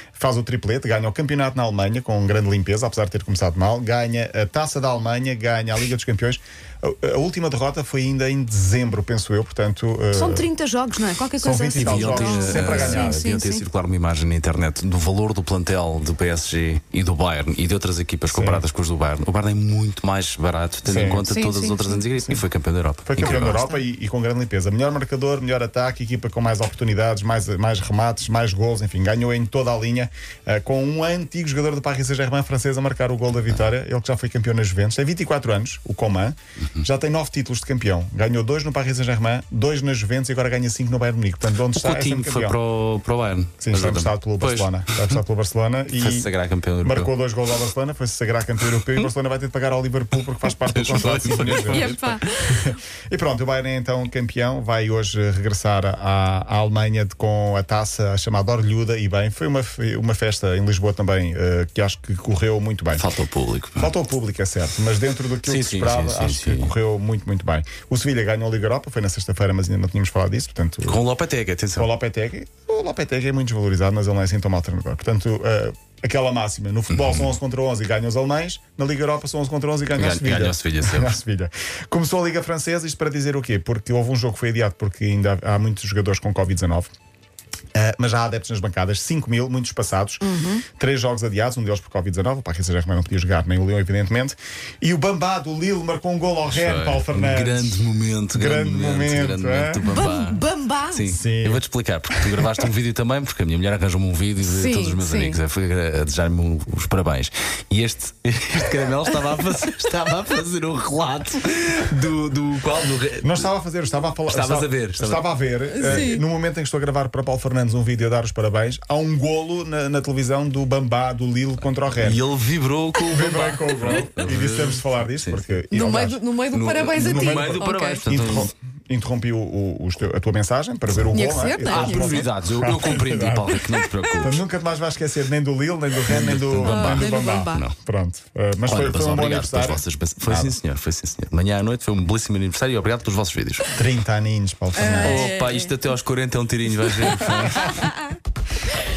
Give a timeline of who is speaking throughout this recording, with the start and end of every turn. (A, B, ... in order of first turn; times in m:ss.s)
0:00.2-0:10.5 A
0:10.1-0:13.6 B
0:11.4-0:13.2 A
0:11.7-0:23.6 C
0:18.3-0:18.6 A
0:20.8-0:21.2 A
0:21.2-0:22.0 B
0:23.0-0:42.6 A
0:23.2-0:23.8 B
0:41.7-0:45.2 C
0:43.6-0:46.3 A
0:46.0-0:47.1 C
0:46.8-1:03.0 A
0:50.5-0:52.2 C
0:51.6-0:52.7 B
1:02.9-1:03.9 C
1:03.8-1:11.0 A
1:05.4-1:06.7 C
1:10.8-1:11.9 C
1:11.8-1:26.9 A
1:16.9-1:17.3 C
1:20.0-1:21.2 C
1:27.7-1:30.2 A
1:30.2-1:30.6 B
1:30.8-1:37.8 A
1:36.4-1:53.5 C
1:38.3-1:39.9 A
1:39.9-1:41.1 B
1:41.0-1:41.6 A
1:44.4-1:45.4 B
1:53.2-2:02.2 A
1:54.3-1:55.2 C
1:55.7-1:56.2 B
1:55.8-1:56.1 C
2:02.0-2:05.5 C
2:03.1-2:06.2 A
2:05.7-2:08.4 B
2:06.5-2:08.5 C
2:07.0-2:13.5 A
2:11.1-2:12.2 B
2:11.6-2:14.4 C
2:13.6-2:14.0 B
2:14.2-2:20.5 A
2:16.1-2:17.7 C
2:16.6-2:17.6 B
2:18.6-2:23.7 C
2:23.7-2:25.3 A
2:24.8-2:25.7 B
2:25.0-2:27.8 C
2:27.4-2:27.9 B